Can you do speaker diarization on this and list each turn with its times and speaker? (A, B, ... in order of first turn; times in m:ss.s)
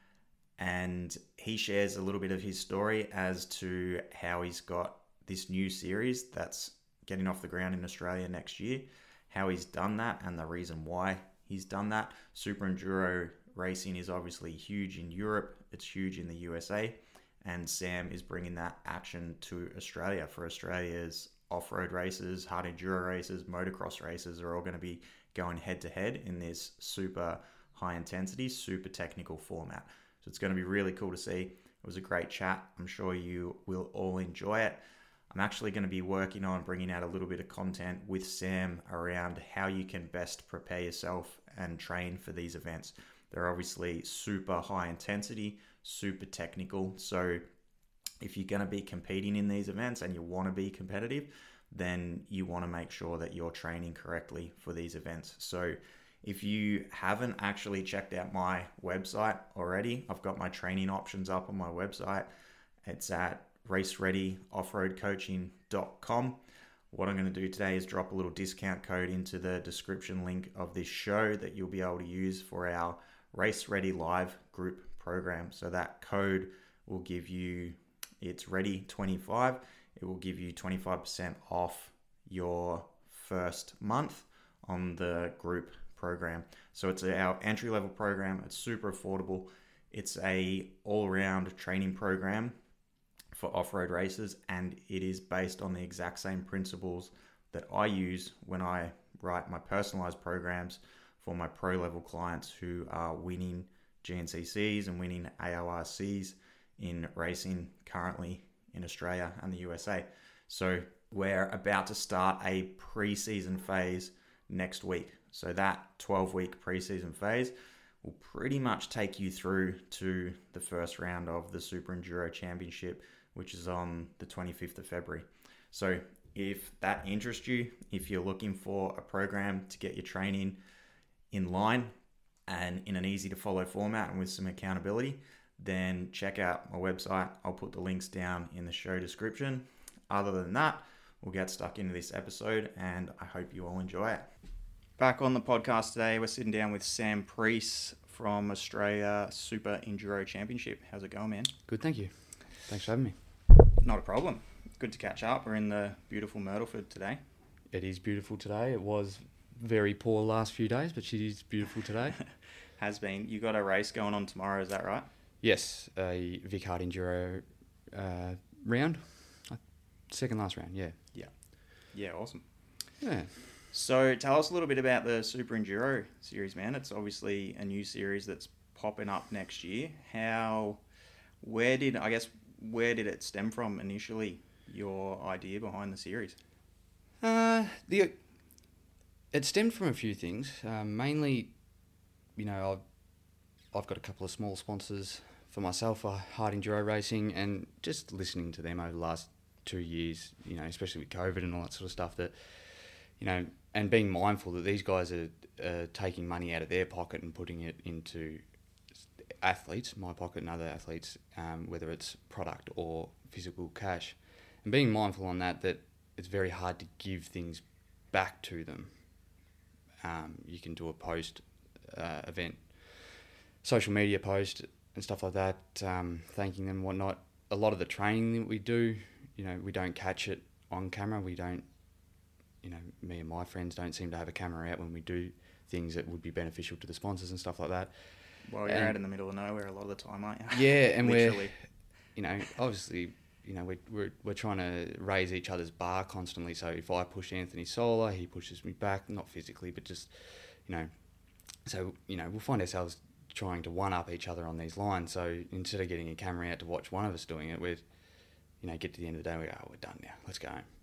0:00.6-0:47.4 A
0:48.2-1:02.3 A
1:02.8-1:06.4 A
1:06.9-1:32.5 A
1:33.3-2:10.6 A
2:11.3-2:11.9 A
2:12.5-2:24.3 A
2:25.0-2:31.5 A
2:31.7-2:33.1 B
2:33.8-2:37.2 A
2:37.7-2:42.2 B
2:42.8-2:45.1 A
2:45.4-2:51.0 B
2:51.9-2:52.4 A
2:53.0-2:53.3 B
2:53.7-3:00.8 A
3:01.4-3:06.4 A
3:07.2-3:08.1 B
3:09.3-3:11.5 B
3:12.4-3:12.8 B
3:13.7-3:28.4 B
3:29.3-3:38.9 B
3:40.0-3:51.6 B
3:52.6-3:57.9 B
3:58.4-4:01.5 A
3:58.6-3:59.0 B
4:00.5-4:01.6 B
4:02.2-4:10.9 B
4:11.6-4:17.8 B
4:18.6-4:20.6 B